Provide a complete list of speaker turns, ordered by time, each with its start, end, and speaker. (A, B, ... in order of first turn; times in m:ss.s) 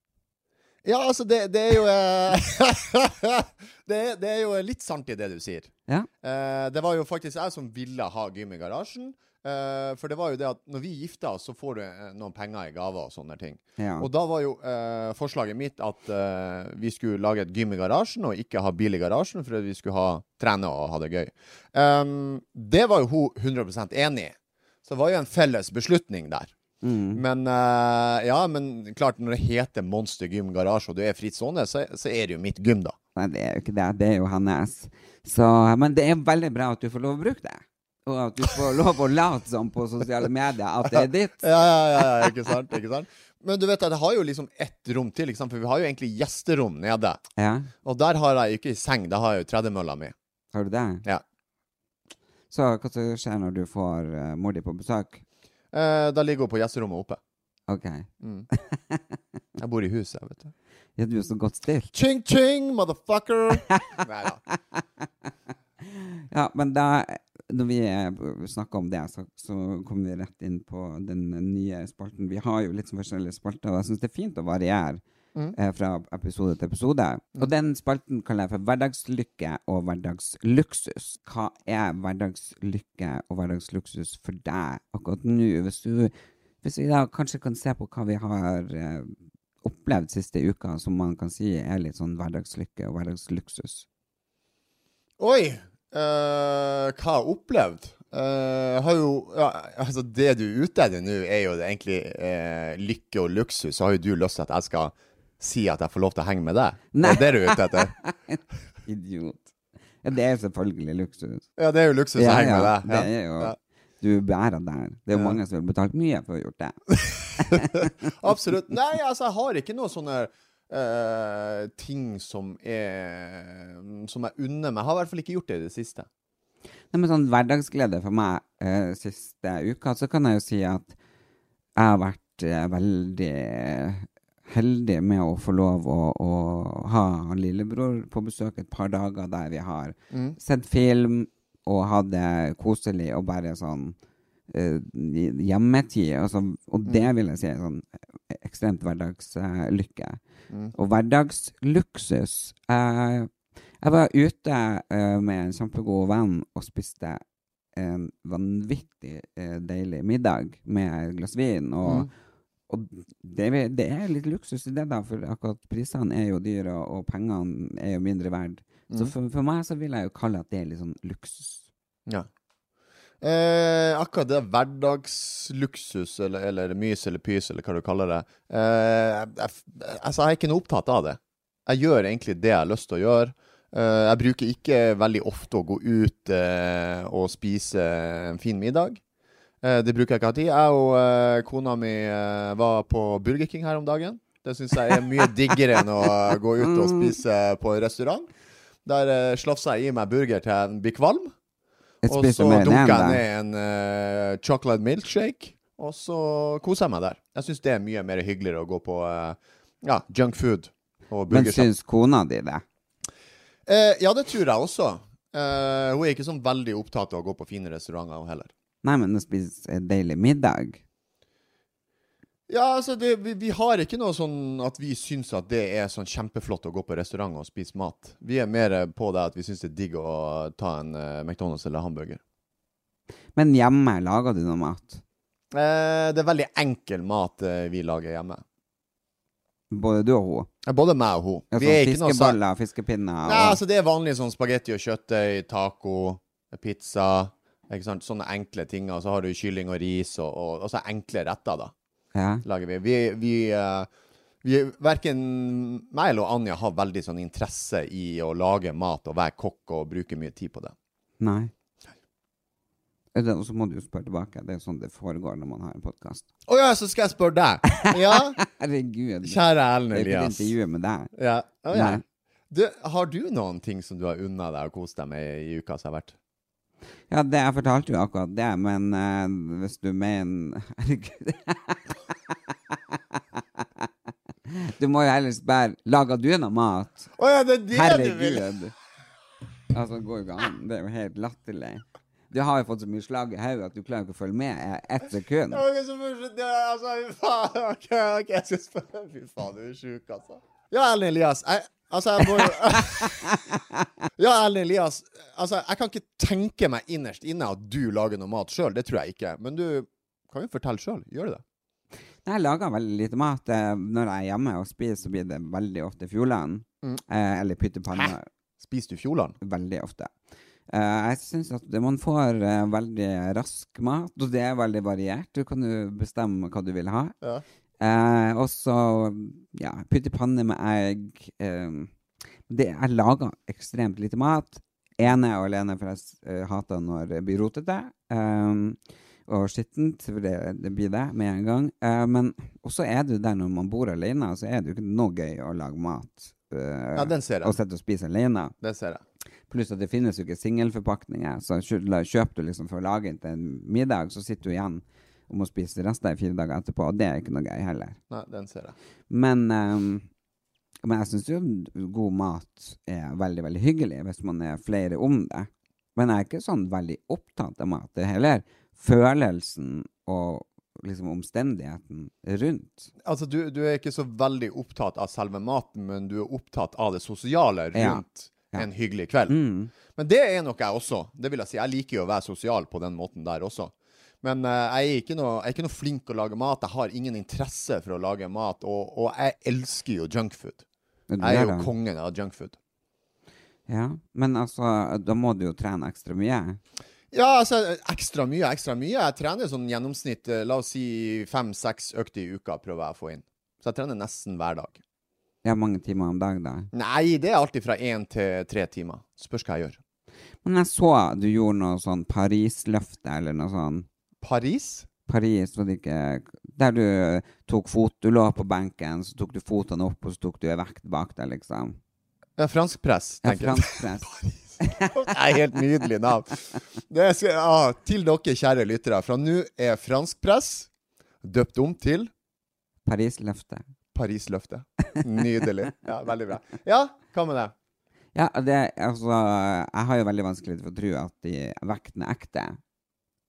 0:00.8-0:05.7 A
0:06.2-0:26.5 A
0:13.8-0:14.1 B
0:26.8-0:27.2 B
0:27.1-0:33.0 A
0:33.2-0:41.5 B
0:41.4-0:47.2 A
0:47.4-0:47.7 B
0:47.8-0:50.1 A
0:50.5-0:51.0 B
0:52.5-0:55.2 B
0:55.7-0:57.2 A
0:57.7-0:59.2 B
0:58.2-0:58.5 A
0:59.6-1:00.5 A
1:01.0-1:01.9 B
1:01.9-1:04.4 A
1:05.9-1:15.0 B
1:15.5-1:33.8 B
1:35.2-1:47.9 A
1:46.9-1:49.5 B
1:50.0-1:51.4 B
1:51.6-1:53.6 A
1:52.2-1:56.8 B
1:55.1-1:55.4 A
1:56.9-2:06.1 A
1:57.4-1:57.9 B
2:06.9-2:10.9 B
2:11.8-2:23.9 B
2:20.1-2:20.4 A
2:24.5-2:30.2 B
2:30.7-2:33.3 B
2:33.8-2:37.2 B
2:37.8-2:42.1 B
2:42.7-2:51.6 B
2:53.2-3:09.0 A
3:09.6-3:18.3 A
3:16.6-3:17.1 B
3:18.8-3:21.3 A
3:22.0-3:23.2 B
3:22.0-3:31.7 A
3:31.3-3:32.6 B
3:33.7-3:38.5 A
3:38.8-3:40.8 B
3:42.5-3:52.2 A
3:53.3-3:55.0 B
3:55.5-3:58.4 A
3:59.7-4:00.5 B
4:00.6-4:02.4 A
4:01.5-4:03.6 B
4:03.2-4:11.7 A
4:12.1-4:12.4 B
4:12.4-4:13.9 A
4:14.4-4:20.7 A
4:21.2-4:21.5 B
4:23.1-4:26.2 B
4:26.5-4:28.4 A
4:27.7-4:31.1 B
4:29.2-4:30.5 A
4:31.1-4:36.1 A
4:31.7-4:32.0 B
4:37.1-4:41.9 B
4:44.5-4:47.1 B
4:47.2-4:48.5 A
4:47.7-4:48.7 B
4:49.7-4:55.6 B
4:55.5-5:03.6 A
5:02.7-5:03.4 B
5:04.2-5:11.4 A
5:12.2-5:18.3 B
5:18.0-5:19.4 A
5:19.4-5:20.1 B
5:20.7-5:27.1 B
5:27.8-5:31.9 B
5:32.5-5:48.5 B
5:46.9-5:47.6 A
5:48.6-5:49.0 A
5:49.5-5:58.0 B
5:58.1-5:58.7 A
5:59.1-6:00.1 B
6:00.8-6:12.9 B
6:13.0-6:19.4 A
6:17.7-6:18.7 B
6:19.3-6:19.7 B
6:19.9-6:30.6 A
6:31.1-6:31.7 B
6:31.2-6:32.6 A
6:33.7-6:36.6 B
6:37.1-6:44.8 A
6:45.4-6:46.7 B
6:46.7-6:49.8 A
6:50.4-6:53.8 B
6:54.2-6:54.9 A
6:55.1-7:01.8 B
7:02.4-7:10.7 A
7:03.2-7:04.1 B
7:04.6-7:05.1 B
7:11.2-7:12.1 A
7:12.8-7:13.6 B
7:13.9-7:17.5 A
7:18.1-7:22.6 B